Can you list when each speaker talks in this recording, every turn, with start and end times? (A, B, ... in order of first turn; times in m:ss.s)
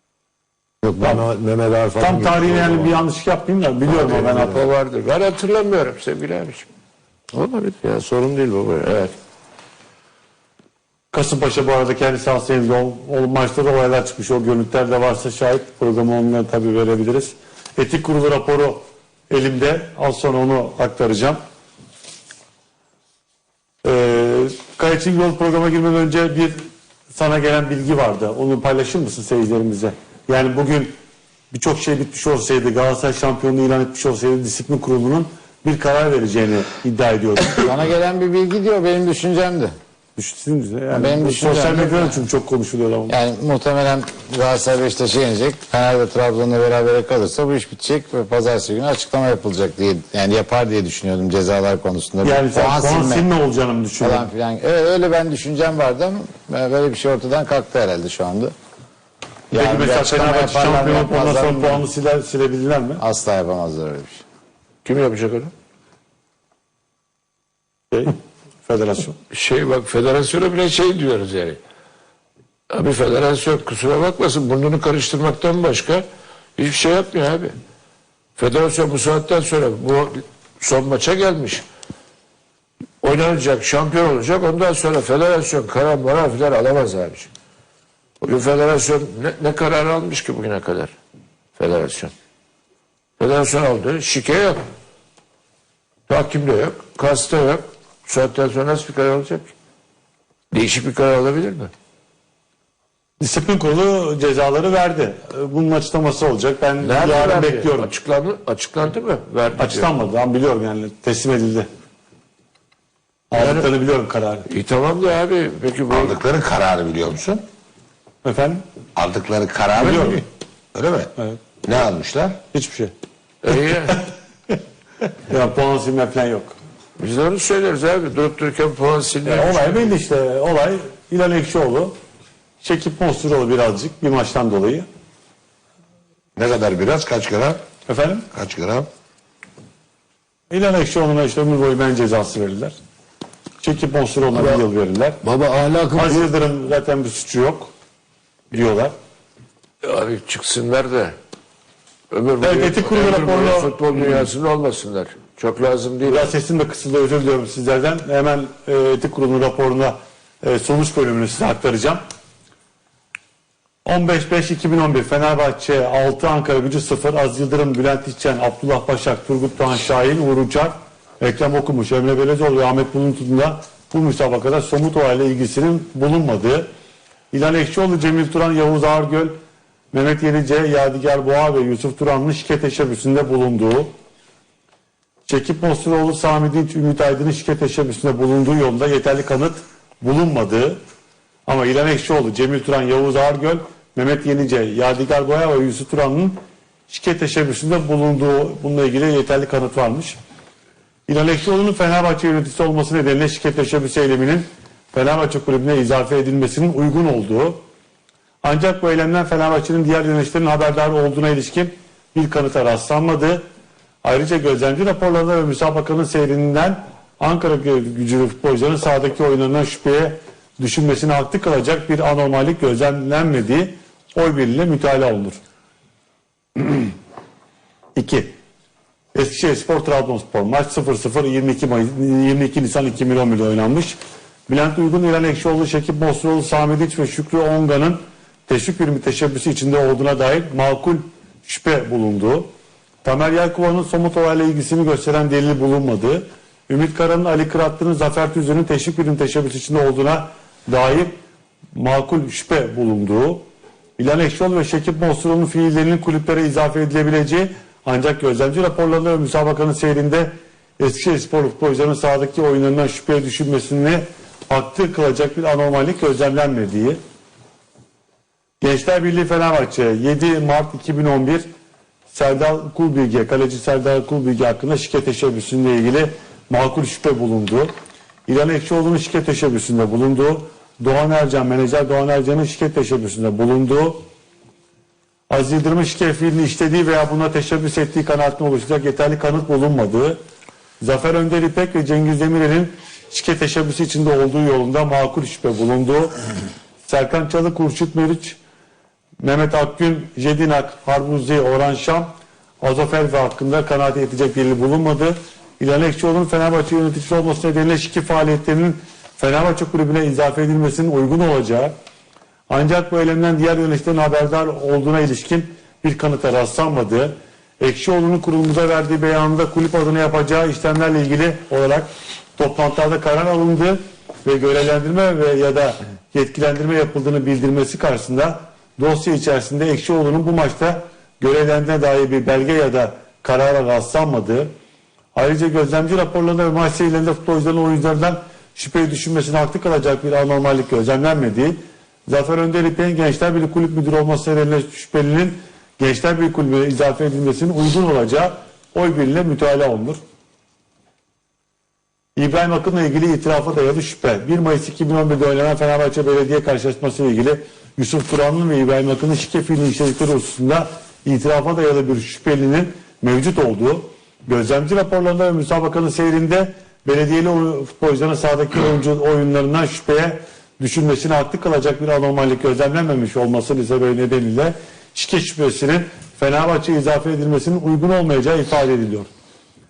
0:00.8-0:03.0 A
0:02.0-0:04.6 B
0:04.0-0:04.6 A
0:04.3-0:06.7 C
0:07.3-0:09.1 C
0:11.1-0:21.4 B
0:23.8-0:30.9 B
0:31.5-0:37.7 B
0:37.6-0:39.7 D
0:40.2-0:43.2 B
0:40.9-0:42.2 D
0:43.1-0:53.3 D
0:52.2-0:54.3 B
0:54.0-0:58.5 D
0:59.5-1:01.9 D
0:59.5-1:03.0 B
1:03.0-1:04.2 D
1:04.8-1:05.5 C
1:08.7-1:09.2 B
1:09.3-1:11.6 C
1:12.7-1:16.1 C
1:16.6-1:17.5 C
1:18.4-1:21.7 C
1:23.0-1:27.3 C
1:28.2-1:31.0 C
1:31.6-1:32.1 C
1:33.2-1:34.6 C
1:36.1-1:39.5 C
1:40.5-1:41.7 C
1:43.2-1:47.9 B
1:46.8-1:49.9 C
1:49.6-1:51.7 B
1:53.3-1:54.5 B
1:53.4-1:53.7 C
1:54.5-1:56.2 C
1:55.9-1:57.4 E
1:58.2-1:58.6 B
1:59.0-2:02.4 E
1:59.8-2:00.2 B
2:02.5-2:02.9 B
2:03.4-2:04.0 C
2:05.3-2:06.6 B
2:07.0-2:09.9 C
2:09.3-2:11.9 B
2:12.6-2:14.9 B
2:16.4-2:17.6 E
2:17.9-2:18.3 B
2:18.3-2:18.9 E
2:20.5-2:22.7 B
2:23.6-2:25.2 B
2:25.2-2:26.2 C
2:26.0-2:27.7 B
2:28.5-2:28.9 B
2:29.8-2:31.2 C
2:32.1-2:36.3 C
2:32.4-2:33.8 B
2:36.0-2:42.0 B
2:43.8-2:56.7 B
2:57.3-2:59.3 B
2:59.9-3:03.9 B
3:05.3-3:10.8 B
3:11.5-3:20.2 B
3:21.1-3:27.6 B
3:28.4-3:33.4 B
3:34.0-3:45.4 B
3:46.6-3:46.9 B
3:48.0-3:48.3 B
3:49.1-3:54.0 B
3:54.5-4:02.5 B
4:03.0-4:11.1 B
4:11.8-4:13.4 B
4:14.0-4:27.0 B
4:28.6-4:31.5 B
4:32.1-4:37.7 B
4:38.3-4:44.0 B
4:45.3-4:50.2 B
4:50.8-4:56.2 B
4:56.8-4:58.4 B
4:59.2-5:11.7 B
5:12.5-5:34.5 B
5:35.2-5:50.0 B
5:52.2-6:19.1 B